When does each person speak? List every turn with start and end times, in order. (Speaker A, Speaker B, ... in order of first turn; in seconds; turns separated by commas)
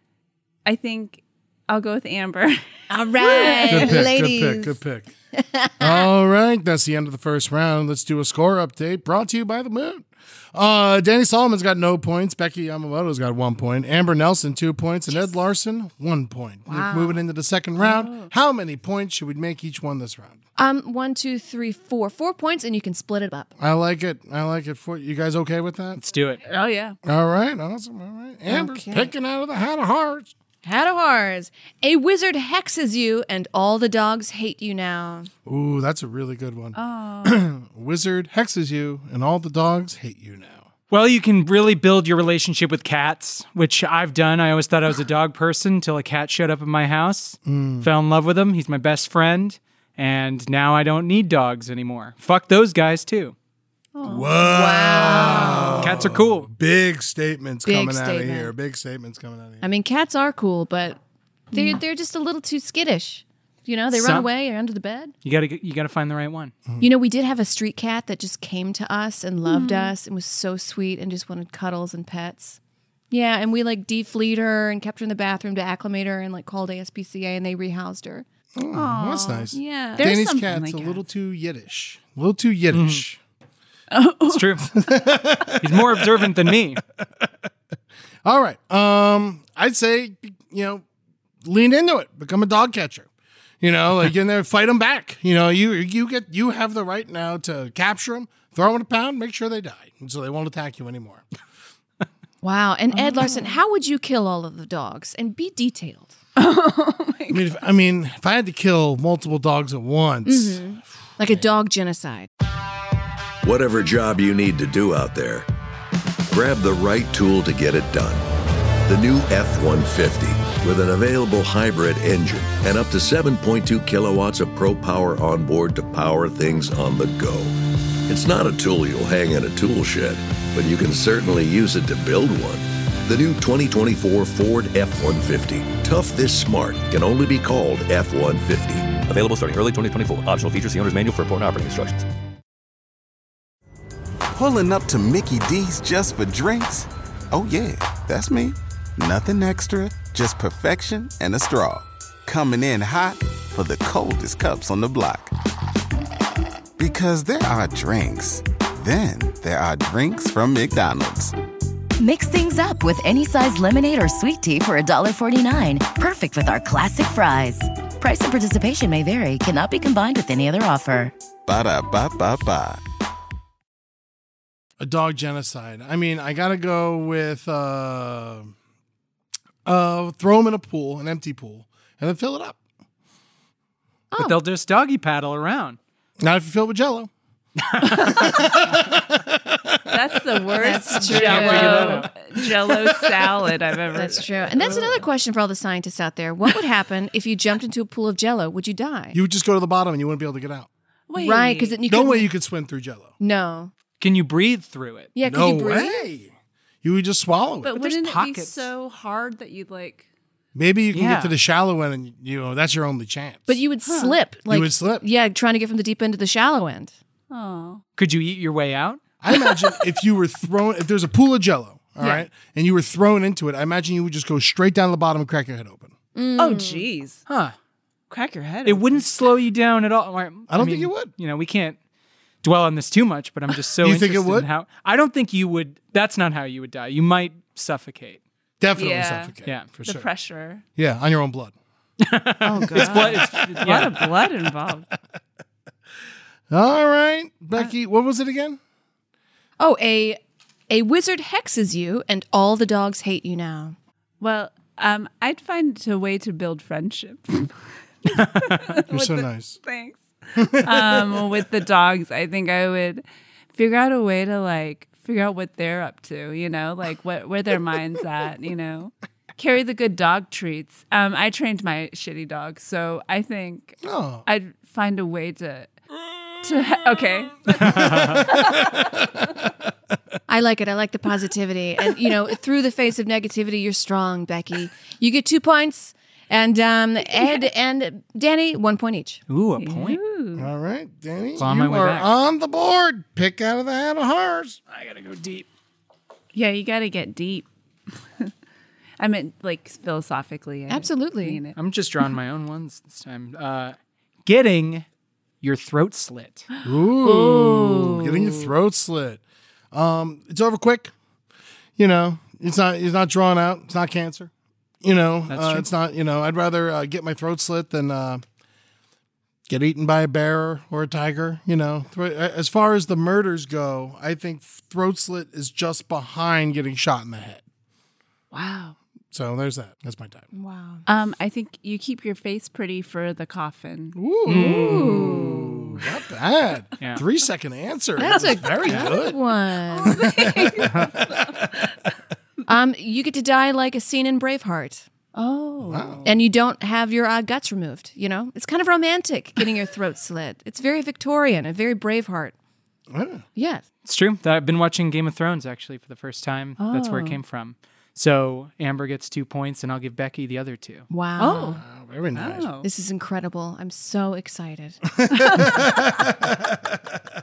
Speaker A: 0.7-4.0, Speaker B: 2.9-4.8, Speaker C: 3.7-5.1, Speaker B: 5.3-6.1, Speaker C: 5.8-20.4, Speaker B: 16.7-17.2, Speaker A: 17.8-18.3, Speaker B: 20.6-23.5, Speaker C: 23.6-26.0, Speaker D: 26.0-26.4, Speaker A: 26.4-27.0, Speaker C: 27.1-30.3, Speaker B: 28.5-29.1, Speaker B: 30.6-35.3, Speaker C: 35.5-40.7, Speaker A: 36.8-37.5, Speaker D: 40.9-53.4, Speaker C: 47.5-47.9, Speaker A: 54.0-54.3, Speaker C: 54.0-59.6, Speaker B: 54.4-55.9, Speaker A: 55.3-55.6, Speaker D: 55.8-56.5, Speaker B: 57.6-58.5, Speaker B: 59.6-61.0, Speaker A: 61.5-61.8, Speaker B: 61.5-65.1, Speaker D: 63.9-64.3, Speaker D: 65.2-66.5, Speaker B: 66.8-72.6, Speaker A: 69.4-69.9, Speaker B: 73.1-78.3, Speaker C: 78.6-83.2, Speaker A: 78.7-81.0, Speaker B: 79.5-80.1, Speaker D: 82.7-83.0, Speaker A: 83.9-84.5, Speaker D: 84.3-84.7, Speaker C: 84.7-87.3, Speaker D: 85.6-86.8, Speaker C: 88.2-90.8, Speaker C: 91.4-93.1, Speaker C: 93.6-101.3, Speaker B: 102.4-106.2, Speaker A: 103.0-103.6, Speaker A: 106.4-107.5, Speaker C: 107.3-110.8, Speaker B: 110.3-112.3, Speaker E: 113.4-115.5, Speaker E: 116.3-118.3, Speaker E: 118.9-127.5, Speaker E: 128.1-139.0, Speaker F: 139.1-142.1, Speaker G: 144.3-155.3, Speaker G: 156.8-161.3, Speaker H: 162.0-171.1, Speaker G: 171.5-172.8, Speaker C: 174.8-178.5, Speaker C: 179.7-182.6, Speaker D: 184.2-185.8, Speaker C: 186.2-187.1, Speaker D: 187.8-188.2, Speaker A: 188.0-188.3, Speaker C: 188.1-190.2, Speaker A: 189.9-194.3, Speaker B: 190.6-192.1, Speaker D: 191.0-192.1, Speaker C: 192.7-193.5, Speaker B: 193.9-199.2, Speaker C: 194.6-195.0, Speaker C: 199.1-200.7, Speaker A: 201.1-201.8, Speaker B: 201.2-202.3, Speaker C: 201.9-203.1, Speaker B: 203.2-203.7, Speaker D: 204.0-205.1, Speaker B: 205.2-206.1, Speaker C: 205.2-206.3, Speaker C: 206.8-207.8, Speaker A: 207.6-210.1, Speaker D: 207.8-208.7, Speaker C: 210.6-213.6, Speaker D: 210.9-211.3, Speaker B: 213.5-216.9, Speaker A: 213.9-214.2, Speaker C: 214.5-215.1, Speaker A: 217.3-217.8, Speaker D: 218.0-219.0, Speaker C: 219.2-225.9, Speaker B: 226.2-226.8, Speaker A: 226.4-227.2, Speaker D: 227.3-227.5, Speaker A: 228.1-229.0, Speaker D: 228.7-231.8, Speaker C: 230.5-231.1, Speaker D: 232.4-238.2, Speaker C: 233.8-234.5, Speaker C: 238.6-240.1, Speaker A: 238.8-240.6, Speaker C: 240.8-241.6, Speaker D: 242.0-244.0, Speaker A: 242.4-244.9, Speaker C: 242.7-243.7, Speaker C: 246.5-248.6, Speaker B: 249.6-250.2, Speaker B: 250.7-253.8, Speaker A: 254.2-275.7, Speaker D: 258.2-258.6, Speaker C: 258.9-259.6, Speaker C: 260.4-261.3, Speaker C: 273.8-274.3, Speaker A: 276.4-279.1, Speaker C: 277.6-279.3, Speaker D: 277.6-278.3, Speaker B: 280.3-289.2, Speaker D: 289.3-290.0, Speaker A: 289.6-290.5, Speaker C: 290.4-294.6, Speaker D: 291.4-292.1, Speaker D: 294.7-295.5, Speaker A: 296.3-297.5, Speaker A: 299.0-301.6, Speaker B: 300.7-301.4, Speaker D: 301.6-303.8, Speaker D: 304.3-304.9, Speaker D: 305.4-306.5, Speaker C: 306.6-310.9, Speaker A: 307.0-308.4, Speaker C: 311.8-314.3, Speaker C: 314.8-318.2, Speaker D: 315.3-315.7, Speaker C: 319.5-327.4, Speaker A: 328.3-328.8, Speaker C: 329.1-330.3, Speaker B: 330.3-330.8, Speaker A: 330.9-334.0, Speaker C: 334.0-339.2, Speaker D: 334.3-335.3, Speaker B: 334.3-335.4, Speaker B: 338.0-340.0, Speaker A: 339.7-341.7, Speaker C: 339.9-341.6, Speaker B: 342.5-344.9, Speaker A: 345.1-346.2, Speaker C: 345.7-346.0, Speaker B: 346.1-352.3, Speaker C: 352.9-353.2, Speaker B: 353.4-353.6, Speaker D: 353.9-360.9, Speaker A: 356.6-357.2, Speaker B: 360.9-361.6, Speaker A: 361.2-361.6, Speaker C: 361.4-362.5, Speaker A: 362.1-362.7, Speaker B: 362.6-364.8, Speaker C: 364.9-366.9